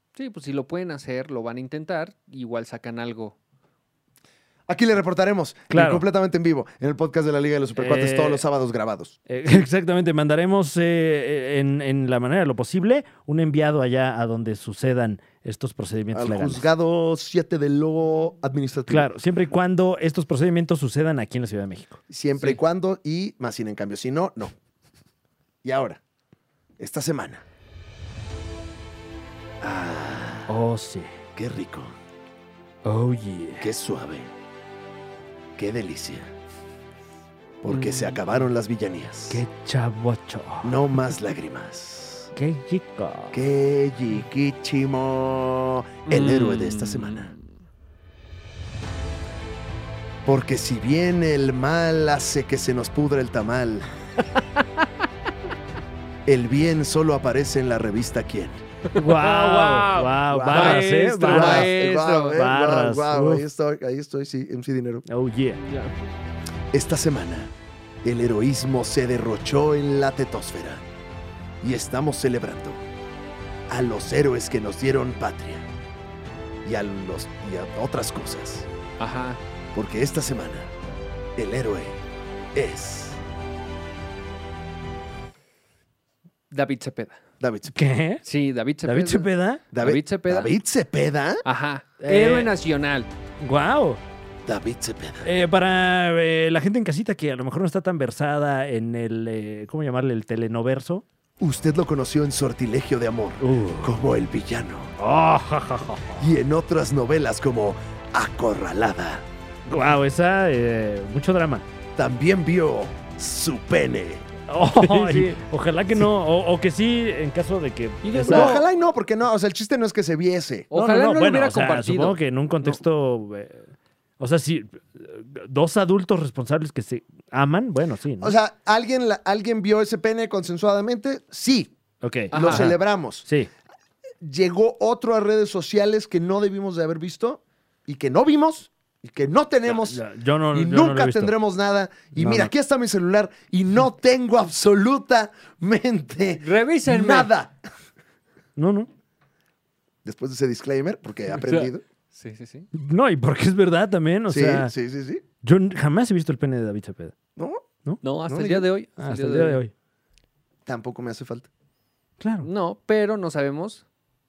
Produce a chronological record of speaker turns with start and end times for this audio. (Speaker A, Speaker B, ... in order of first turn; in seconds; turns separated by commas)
Speaker A: 0.1-3.3, Speaker B: 4.7-9.2, Speaker C: 5.7-6.0, Speaker C: 7.8-8.4, Speaker C: 9.3-16.6, Speaker B: 16.1-19.1, Speaker C: 18.9-22.0, Speaker B: 22.1-24.5, Speaker B: 25.6-26.0, Speaker B: 26.8-27.4, Speaker B: 29.6-30.5, Speaker C: 30.5-31.2, Speaker B: 31.4-31.9, Speaker C: 32.8-33.7, Speaker B: 33.6-34.3, Speaker B: 35.6-36.3, Speaker B: 37.6-39.4, Speaker A: 37.7-38.2, Speaker C: 39.3-40.8, Speaker B: 40.6-42.3, Speaker C: 42.3-43.4, Speaker B: 43.3-47.3, Speaker A: 46.1-47.4, Speaker B: 50.2-53.9, Speaker B: 56.2-58.6, Speaker A: 58.9-62.4, Speaker C: 58.9-61.7, Speaker B: 60.3-65.0, Speaker C: 62.3-63.4, Speaker C: 65.0-65.6, Speaker A: 65.6-65.9, Speaker B: 66.7-67.5, Speaker B: 68.0-70.9, Speaker B: 71.6-72.8, Speaker B: 73.7-75.7, Speaker B: 76.6-78.7, Speaker A: 79.0-79.4, Speaker B: 79.7-80.7, Speaker B: 81.3-82.0, Speaker B: 82.5-83.2, Speaker A: 86.5-87.2, Speaker B: 87.4-87.8, Speaker C: 87.7-88.2, Speaker A: 88.2-90.5, Speaker C: 88.8-89.6, Speaker B: 89.7-91.4, Speaker A: 91.4-93.1, Speaker C: 92.0-92.5, Speaker C: 93.4-94.0, Speaker B: 94.4-95.3, Speaker C: 95.2-101.0, Speaker B: 101.4-104.9, Speaker C: 103.4-104.0, Speaker C: 105.0-106.3, Speaker B: 106.2-109.2, Speaker C: 109.7-111.6, Speaker B: 112.0-114.2, Speaker C: 114.5-118.6, Speaker A: 114.8-115.4, Speaker A: 118.0-118.6, Speaker B: 118.2-120.7, Speaker A: 120.7-122.7, Speaker C: 120.7-128.4, Speaker B: 128.2-131.7, Speaker C: 132.0-133.5, Speaker A: 132.3-132.7, Speaker B: 132.3-133.2, Speaker B: 134.2-140.0, Speaker C: 139.7-141.3, Speaker B: 140.5-147.5, Speaker C: 142.1-142.5, Speaker A: 146.4-147.3, Speaker C: 148.6-148.9, Speaker B: 150.0-151.8, Speaker A: 151.3-152.7, Speaker C: 152.7-154.7, Speaker B: 154.3-155.2, Speaker C: 155.4-157.1, Speaker B: 157.3-157.6, Speaker A: 158.0-159.6, Speaker B: 158.3-158.7, Speaker C: 159.0-159.7, Speaker B: 160.7-161.5, Speaker C: 162.2-162.5, Speaker A: 162.4-163.8